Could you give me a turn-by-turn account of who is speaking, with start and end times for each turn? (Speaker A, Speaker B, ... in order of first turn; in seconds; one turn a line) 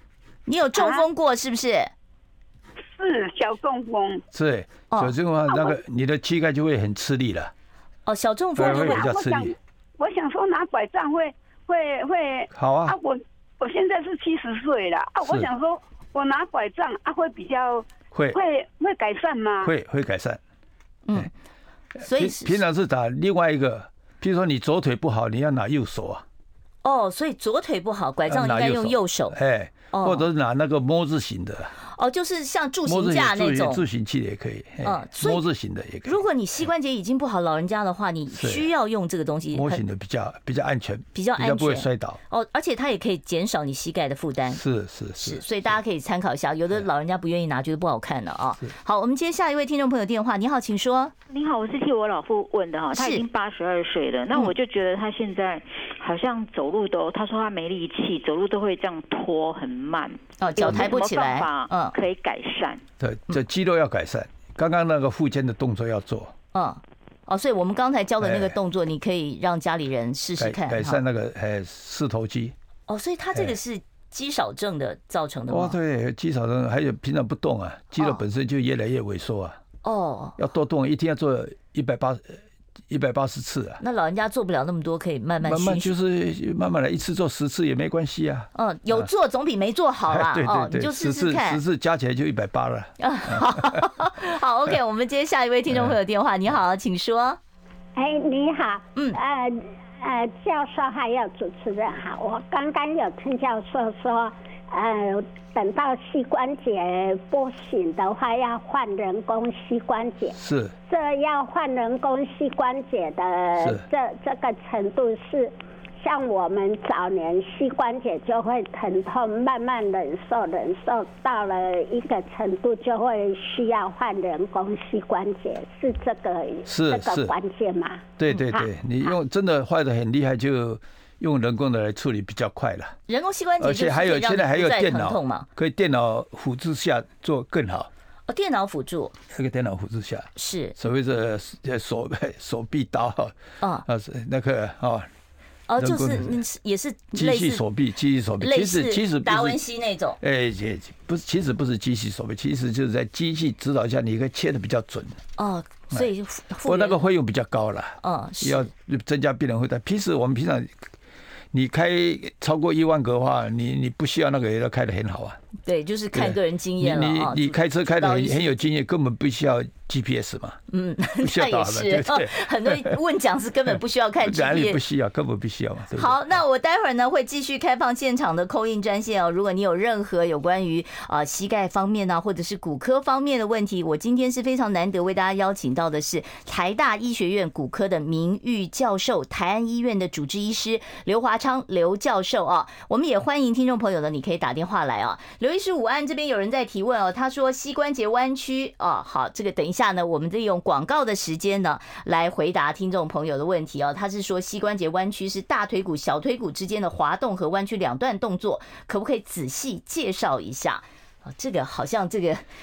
Speaker A: 0.5-1.9
Speaker B: 0.7-1.1
Speaker B: 2.9-4.2
Speaker C: 4.3-7.5
Speaker B: 5.5-5.8
Speaker A: 8.1-9.1
Speaker C: 8.6-9.6
Speaker B: 8.6-19.7
Speaker C: 12.5-12.9
Speaker C: 15.2-15.5
Speaker C: 19.6-20.4
Speaker A: 21.1-21.3
Speaker C: 21.9-26.2
Speaker A: 22.0-22.6
Speaker A: 26.8-29.4
Speaker C: 28.3-31.7
Speaker A: 29.9-30.3
Speaker A: 31.8-33.8
Speaker C: 32.9-36.2
Speaker A: 34.8-35.4
Speaker A: 36.0-39.8
Speaker C: 38.3-38.7
Speaker C: 39.5-42.2
Speaker A: 41.1-44.6
Speaker C: 44.5-45.4
Speaker A: 45.1-51.1
Speaker D: 51.3-62.8
Speaker A: 52.9-53.2
Speaker A: 60.4-61.9
Speaker C: 63.0-66.3
Speaker A: 66.5-71.0
Speaker C: 68.2-68.6
Speaker C: 70.4-72.5
Speaker A: 72.9-75.8
Speaker C: 75.5-79.6
Speaker A: 79.8-80.4
Speaker C: 80.4-83.8
Speaker A: 83.8-85.9
Speaker C: 85.4-89.1
Speaker A: 88.5-91.6
Speaker C: 90.1-93.8
Speaker A: 93.0-97.4
Speaker E: 98.0-110.4
Speaker C: 110.3-110.7
Speaker E: 110.9-128.7
Speaker C: 113.6-113.8
Speaker C: 126.7-127.3
Speaker C: 128.2-133.0
Speaker A: 133.1-135.5
Speaker C: 133.6-137.9
Speaker A: 138.3-139.1
Speaker C: 139.3-145.1
Speaker A: 140.3-140.8
Speaker A: 143.6-143.8
Speaker A: 145.7-147.6
Speaker C: 145.8-146.4
Speaker C: 147.1-149.6
Speaker A: 148.4-150.2
Speaker C: 150.2-155.2
Speaker A: 155.4-157.0
Speaker C: 156.6-160.8
Speaker A: 158.0-158.7
Speaker C: 161.5-165.4
Speaker A: 165.6-168.6
Speaker C: 166.1-170.6
Speaker A: 170.7-174.8
Speaker C: 171.2-173.0
Speaker C: 174.2-176.3
Speaker A: 175.9-212.4